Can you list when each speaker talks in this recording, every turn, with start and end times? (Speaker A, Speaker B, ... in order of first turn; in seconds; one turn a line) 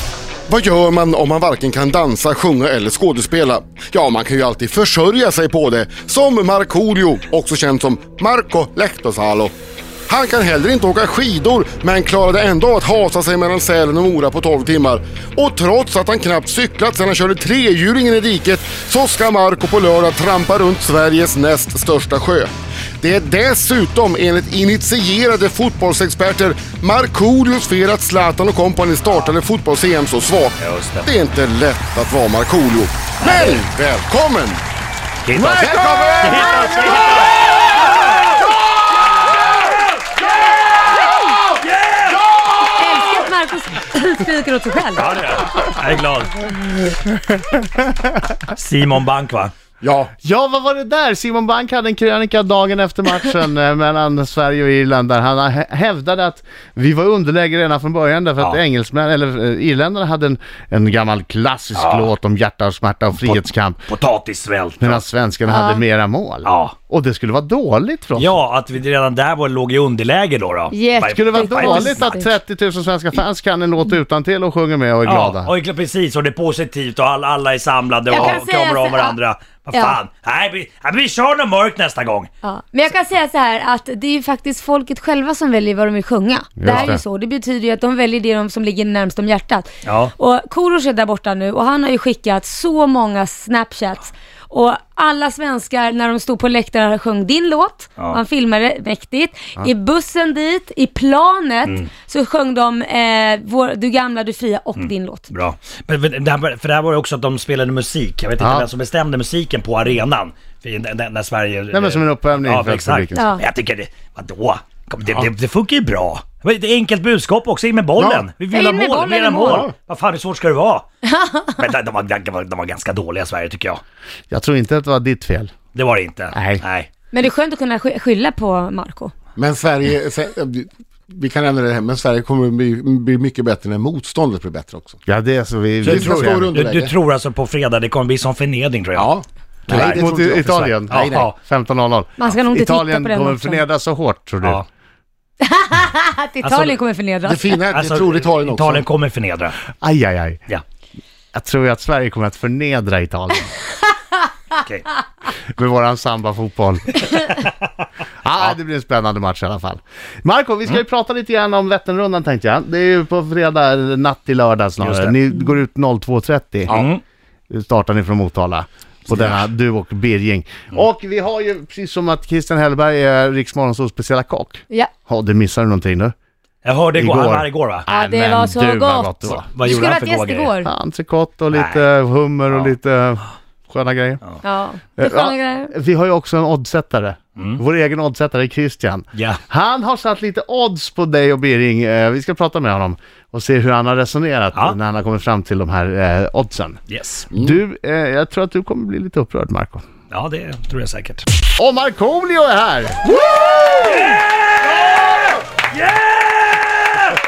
Speaker A: 0.5-9.5
Speaker A: 10.1-22.5
Speaker A: 23.0-34.6
Speaker B: 30.6-31.1
Speaker B: 33.2-33.6
Speaker B: 35.2-38.2
Speaker C: 35.4-36.6
Speaker A: 35.5-36.7
Speaker B: 40.5-41.0
Speaker B: 41.6-42.3
Speaker D: 42.7-45.2
Speaker B: 45.0-46.4
Speaker B: 48.5-49.5
Speaker A: 49.8-50.1
Speaker C: 50.2-63.8
Speaker B: 61.7-62.1
Speaker B: 63.2-65.0
Speaker C: 64.8-68.4
Speaker D: 65.5-65.8
Speaker B: 66.4-66.7
Speaker B: 68.2-72.1
Speaker D: 70.7-72.3
Speaker C: 71.1-75.5
Speaker B: 75.0-82.3
Speaker D: 78.1-79.2
Speaker D: 79.7-80.0
Speaker D: 82.4-105.3
Speaker C: 86.6-87.0
Speaker B: 86.7-87.0
Speaker B: 89.8-90.1
Speaker B: 104.8-123.8
Speaker C: 108.4-108.7
Speaker C: 111.7-113.3
Speaker D: 113.2-113.5
Speaker A: 118.0-118.2
Speaker D: 118.5-119.7
Speaker C: 124.3-125.5
Speaker B: 125.8-126.9
Speaker C: 126.3-126.6
Speaker D: 127.1-129.1
Speaker A: 129.4-135.0
Speaker C: 135.1-136.5
Speaker A: 135.8-136.9
Speaker B: 135.8-139.1
Speaker A: 138.9-141.3
Speaker B: 139.7-140.0
Speaker C: 139.7-144.6
Speaker B: 140.9-141.4
Speaker D: 142.2-143.6
Speaker D: 145.4-147.5
Speaker B: 146.4-146.7
Speaker A: 147.2-148.8
Speaker B: 147.7-149.6
Speaker C: 149.8-150.4
Speaker C: 151.3-153.5
Speaker B: 154.6-154.9
Speaker C: 155.5-157.3
Speaker C: 158.2-166.8
Speaker B: 164.8-165.2
Speaker B: 166.7-167.0
Speaker C: 167.5-176.1
Speaker B: 169.1-169.4
Speaker B: 176.6-177.9
Speaker C: 176.9-179.5
Speaker D: 177.9-180.7
Speaker B: 179.5-180.6
Speaker C: 180.6-184.2
Speaker B: 181.5-181.8
Speaker D: 184.4-185.8
Speaker C: 185.0-196.8
Speaker B: 187.4-187.6
Speaker B: 189.2-189.4
Speaker B: 196.9-197.3
Speaker A: 197.3-197.6
Speaker C: 197.3-199.8
Speaker B: 200.1-201.2
Speaker C: 201.6-203.5
Speaker B: 203.6-207.2